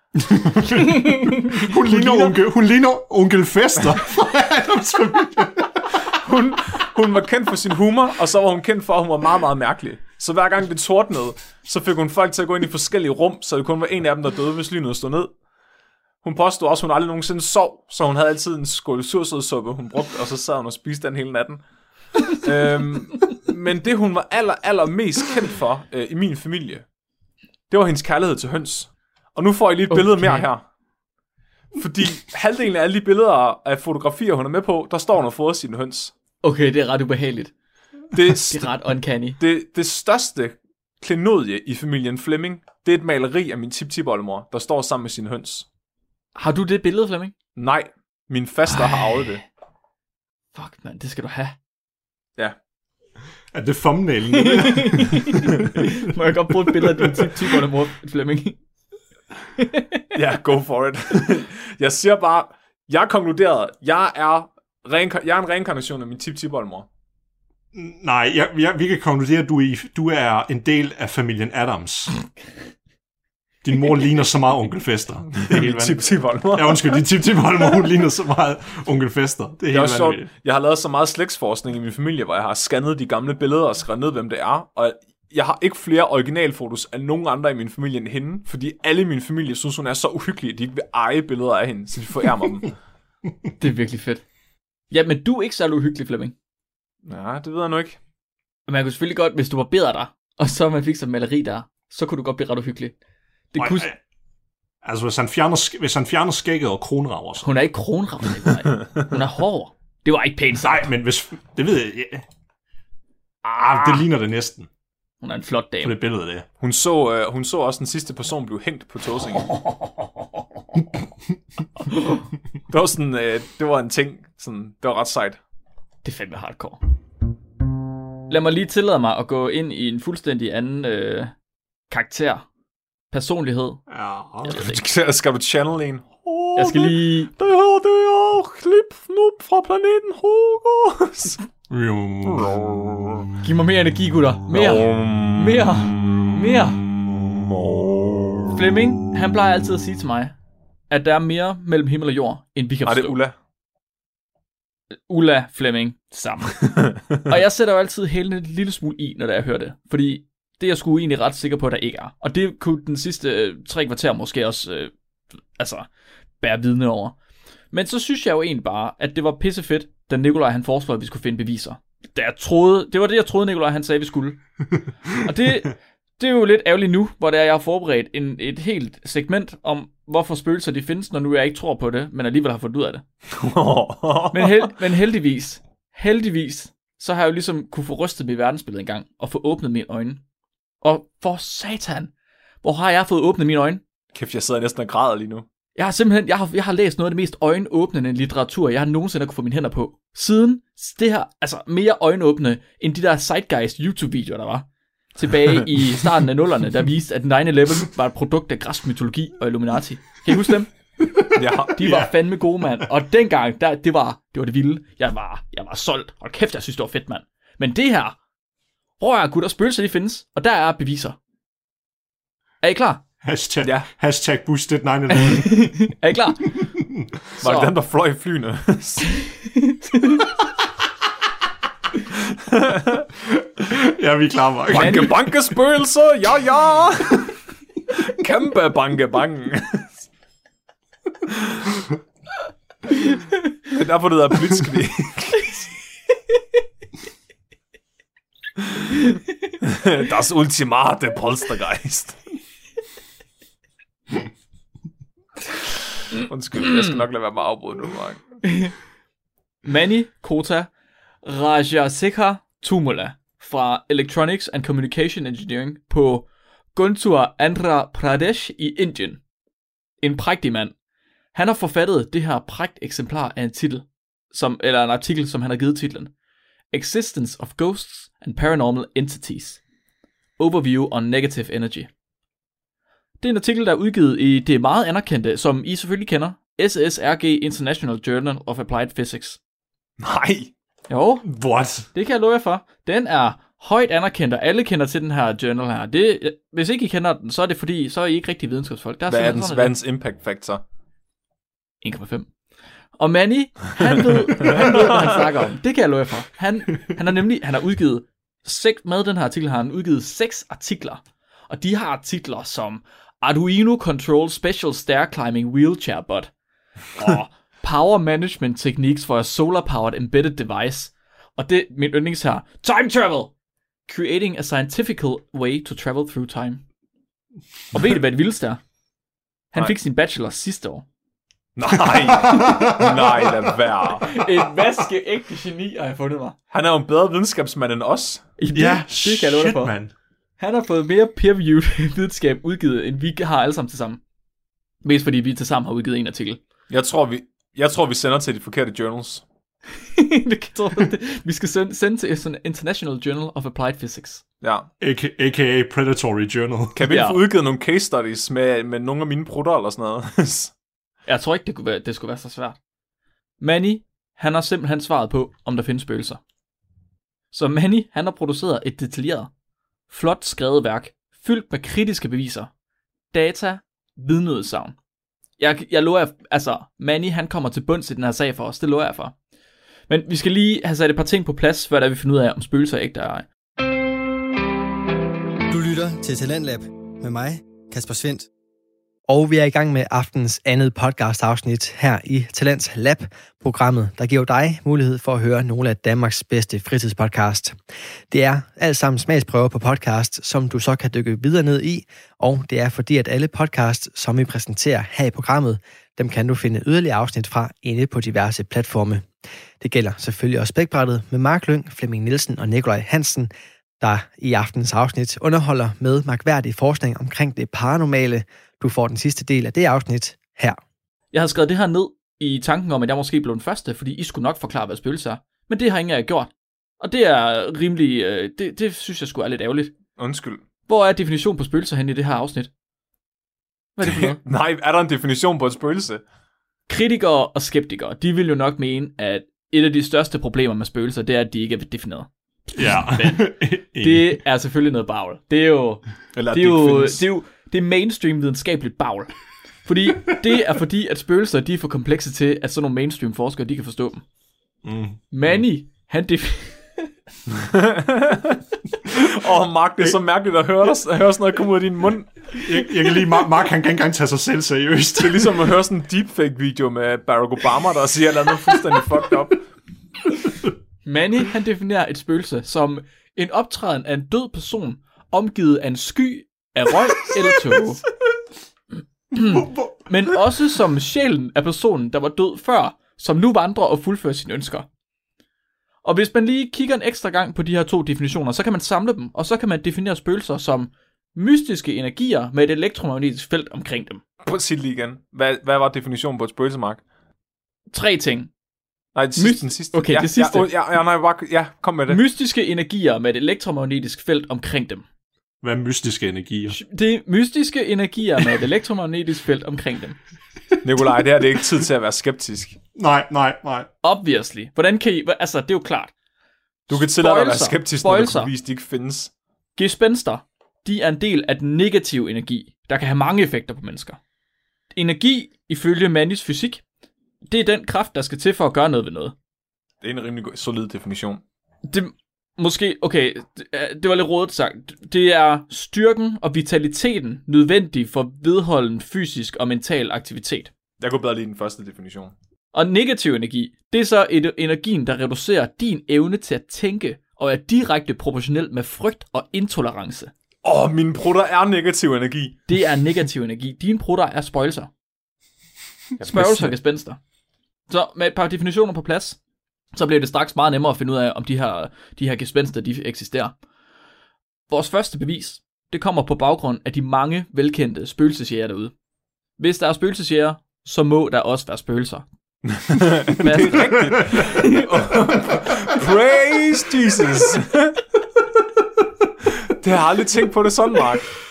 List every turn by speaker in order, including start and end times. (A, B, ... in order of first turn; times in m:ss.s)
0:00.3-0:05.9 A
0:01.0-0:02.3 B
0:06.1-0:15.3 C
0:16.2-0:21.6 C
0:22.3-0:26.8 C
0:27.7-0:30.6 C
0:29.9-0:30.5 B
0:31.8-0:36.1 C
0:36.4-0:37.5 B
0:38.1-0:38.7 C
0:38.5-0:39.4 B
0:39.4-0:45.6 C
0:46.3-0:47.3 B
0:47.6-0:49.4 C
0:48.8-0:49.2 B
0:50.5-0:51.6 B
0:53.5-0:55.9 A
0:54.3-0:58.6 B
0:56.7-0:57.3 A
0:59.6-1:00.0 B
1:00.1-1:06.8 C
1:07.7-1:12.3 A
1:13.6-1:16.0 A
1:15.5-1:17.0 C
1:16.5-1:20.3 A
1:19.7-1:32.7 C
1:33.6-1:34.2 B
1:34.9-1:36.3 B
1:37.0-1:38.0 C
1:38.7-1:42.9 B
1:43.5-1:43.9 B
1:43.6-1:44.0 A
1:44.8-1:47.5 A
1:47.4-1:50.9 B
1:50.6-1:52.2 A
1:53.4-1:54.1 B
1:53.5-1:54.7 A
1:55.2-1:56.0 B
1:55.8-1:56.4 A
1:56.6-1:59.5 C
1:59.4-2:00.4 B
2:02.7-2:05.4 C
2:06.0-2:06.8 B
2:08.3-2:11.3 B
2:11.9-2:12.5 B
2:13.1-2:13.8 B
2:13.9-2:14.5 A
2:14.4-2:14.8 B
2:14.5-2:21.4 C
2:16.6-2:17.3 B
2:21.7-2:22.6 A
2:22.2-2:23.3 C
2:23.4-2:26.8 B
2:24.5-2:28.6 C
2:28.5-2:30.3 B
2:30.9-2:33.2 B
2:32.8-2:33.3 C
2:34.9-2:44.9 B
2:45.6-2:45.9 B
2:46.4-2:47.2 B
2:47.7-2:54.4 B
2:55.2-3:03.0 B
3:03.3-3:04.7 C
3:04.3-3:10.2 B
3:10.8-3:12.1 B
3:12.6-3:13.8 B
3:14.1-3:15.4 C
3:15.8-3:30.7 B
3:31.0-3:32.1 A
3:31.3-3:31.8 C
3:31.7-3:38.2 B
3:39.0-3:41.2 B
3:42.6-3:43.0 B
3:43.2-3:45.9 A
3:43.6-3:43.9 C
3:45.1-3:46.5 B
3:46.8-3:47.0 A
3:47.4-3:49.1 C
3:47.4-3:47.7 B
3:49.2-3:50.2 B
3:52.4-3:53.0 C
3:53.6-3:55.2 A
3:54.7-3:57.4 C
3:54.7-3:55.1 B
3:57.9-3:59.9 C
4:01.3-4:01.6 C
4:03.7-4:05.6 C
4:09.6-4:12.2 C
4:16.1-4:18.4 C
4:18.4-4:18.7 B
4:19.6-4:20.7 B
4:21.2-4:29.2 B
4:30.0-4:30.7 B
4:31.3-4:36.1 B
4:36.7-4:39.6 B
4:40.4-4:41.9 B
4:43.2-4:49.4 B
4:50.0-4:50.5 C
4:50.9-4:51.3 B
4:51.2-4:51.9 A
4:51.9-4:59.7 B
4:59.1-5:00.6 C
5:01.8-5:02.3 B
5:03.0-5:16.3 B
5:17.0-5:23.3 B
5:23.9-5:26.6 B
5:27.7-5:28.6 B
5:29.5-5:30.8 B
5:31.6-5:34.2 C
5:32.2-5:33.4 A
5:32.2-5:32.7 B
5:34.0-5:36.4 B
5:36.5-5:38.2 C
5:38.4-5:39.7 B
5:38.5-5:39.9 A
5:40.4-5:44.0 B
5:44.8-5:46.4 B
5:46.7-5:49.2 C
5:49.9-5:54.2 B
5:54.4-5:54.7 C
5:54.8-5:56.8 A
5:56.7-6:00.5 C
5:56.9-5:57.2 B
6:01.1-6:02.6 B
6:03.4-6:06.2 B
6:07.3-6:09.3 B
6:09.9-6:12.5 B
6:13.1-6:14.8 B
6:15.4-6:19.1 B
6:19.9-6:23.2 B
6:25.5-6:28.3 D
6:29.1-6:37.6 E
6:38.1-6:49.0 E
6:49.6-7:00.6 E
7:01.1-7:09.7 B
7:10.0-7:10.4 C
7:10.7-7:12.5 B
7:13.8-7:14.2 B
7:13.9-7:16.0 C
7:16.7-7:34.0 B
7:22.5-7:24.2 A
7:26.1-7:27.0 C
7:34.6-7:35.4 A
7:35.1-7:36.9 B
7:37.5-7:42.3 C
7:42.3-7:45.4 A
7:45.0-7:49.4 C
7:50.8-7:57.8 B
7:59.1-8:04.7 B
8:05.8-8:14.0 B
8:14.2-8:16.8 C
8:17.7-8:18.3 B
8:18.9-8:22.0 C
8:19.2-8:20.5 B
8:21.9-8:24.8 B
8:25.4-8:26.6 A
8:26.5-8:30.0 B
8:30.6-8:32.6 C
8:32.7-8:33.7 A
8:33.8-8:35.9 B
8:36.7-8:39.1 C
8:36.7-8:38.3 B
8:39.6-8:44.0 B
8:44.7-8:46.6 B
8:47.3-8:49.1 B
8:49.8-8:51.2 C
8:51.7-9:00.5 B
9:00.8-9:02.1 C
9:02.5-9:10.1 B
9:10.4-9:12.4 C
9:12.5-9:14.7 B
9:16.0-9:16.5 C
9:16.0-9:17.0 B
9:17.7-9:19.2 B
9:19.7-9:23.3 B
9:24.5-9:28.7 B
9:29.4-9:32.0 B
9:32.6-9:37.8 C
9:33.2-9:34.8 B
9:33.9-9:34.3 A
9:39.5-9:41.1 C